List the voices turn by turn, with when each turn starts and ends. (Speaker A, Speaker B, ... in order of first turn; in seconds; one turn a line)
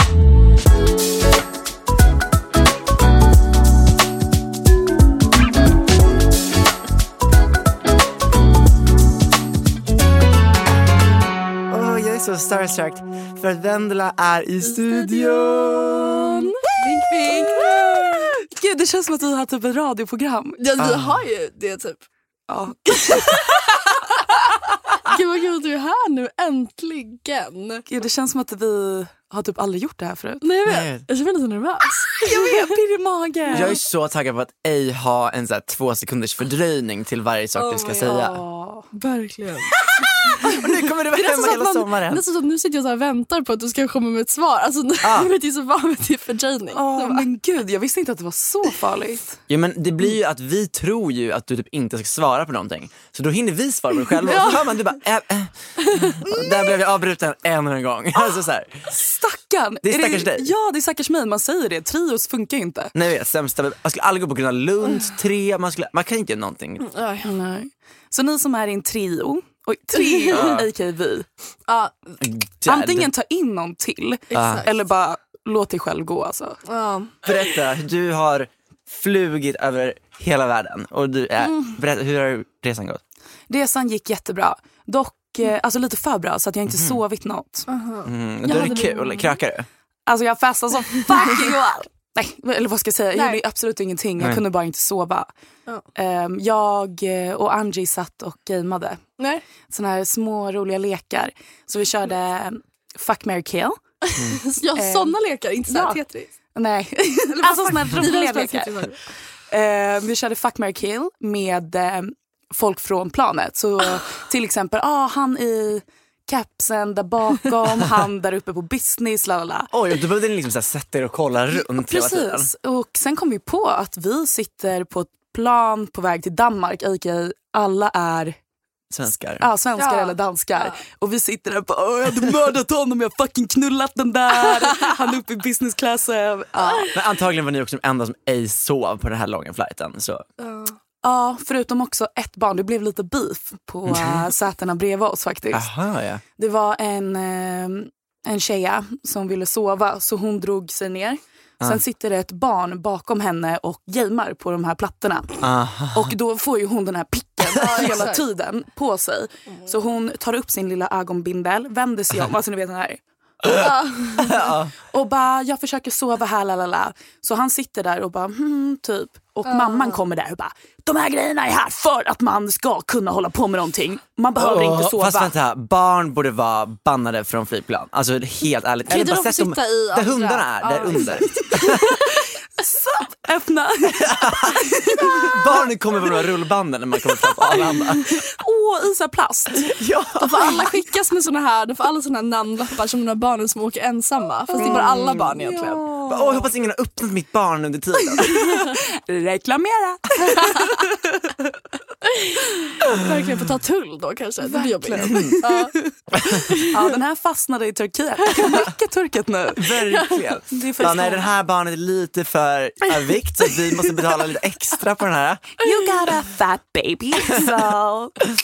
Speaker A: 11.7-16.5
Speaker B: 14.8-18.3
Speaker C: 17.2-20.6
Speaker B: 20.6-22.0
Speaker A: 20.8-21.2
Speaker C: 22.5-23.4
Speaker B: 22.9-24.2
Speaker B: 25.0-27.9
Speaker C: 27.9-30.4
Speaker B: 30.4-32.8
Speaker A: 30.6-31.1
Speaker C: 32.2-33.8
Speaker B: 33.5-33.8
Speaker A: 33.5-38.4
Speaker B: 37.5-38.2
Speaker C: 38.0-38.9
Speaker B: 38.9-39.8
Speaker A: 39.8-42.2
Speaker B: 40.3-47.3
Speaker A: 45.0-45.3
Speaker C: 46.7-49.4
Speaker A: 49.5-58.8
Speaker B: 54.2-54.8
Speaker B: 55.9-56.6
Speaker C: 58.9-62.9
Speaker A: 59.8-60.5
Speaker A: 62.9-66.9
Speaker B: 66.8-67.3
Speaker C: 67.2-71.2
Speaker A: 70.3-70.7
Speaker B: 71.7-72.2
Speaker A: 72.2-73.1
Speaker C: 72.7-76.6
Speaker B: 74.3-74.8
Speaker A: 74.3-74.7
Speaker B: 76.7-77.2
Speaker A: 77.2-83.0
Speaker C: 83.5-87.7
Speaker A: 86.7-87.0
Speaker B: 87.7-89.4
Speaker A: 88.1-89.7
Speaker C: 88.5-88.8
Speaker C: 90.1-95.3
Speaker B: 91.1-91.8
Speaker B: 93.1-93.4
Speaker A: 94.2-94.4
Speaker C: 95.9-99.0
Speaker B: 99.2-99.4
Speaker C: 99.7-104.1
Speaker B: 104.1-106.3
Speaker C: 104.8-105.1
Speaker C: 105.7-106.0
Speaker C: 106.5-108.9
Speaker B: 107.3-109.0
Speaker C: 109.5-119.7
Speaker A: 119.7-122.5
Speaker C: 121.9-128.3
Speaker A: 128.9-129.5
Speaker C: 129.4-136.9
Speaker B: 129.8-130.8
Speaker B: 136.6-136.9
Speaker A: 136.9-140.3
Speaker B: 140.4-140.8
Speaker C: 141.0-145.7
Speaker A: 143.9-144.3
Speaker A: 145.5-146.2
Speaker C: 146.4-175.3
Speaker A: 155.4-156.2
Speaker B: 157.5-158.2
Speaker A: 163.4-164.7
Speaker B: 163.6-164.3
Speaker B: 169.4-170.0
Speaker A: 174.4-182.0
Speaker B: 178.9-182.0
Speaker C: 181.3-185.4
Speaker A: 184.0-188.2
Speaker C: 187.4-189.8
Speaker A: 189.7-190.7
Speaker B: 190.2-195.8
Speaker C: 194.6-196.5
Speaker A: 194.6-195.4
Speaker A: 196.1-198.7
Speaker C: 198.1-201.5
Speaker B: 202.0-207.0
Speaker C: 204.4-205.7
Speaker A: 205.0-205.4
Speaker C: 206.6-210.0
Speaker B: 208.3-208.7
Speaker A: 209.6-215.6
Speaker C: 210.5-211.3
Speaker C: 215.6-218.2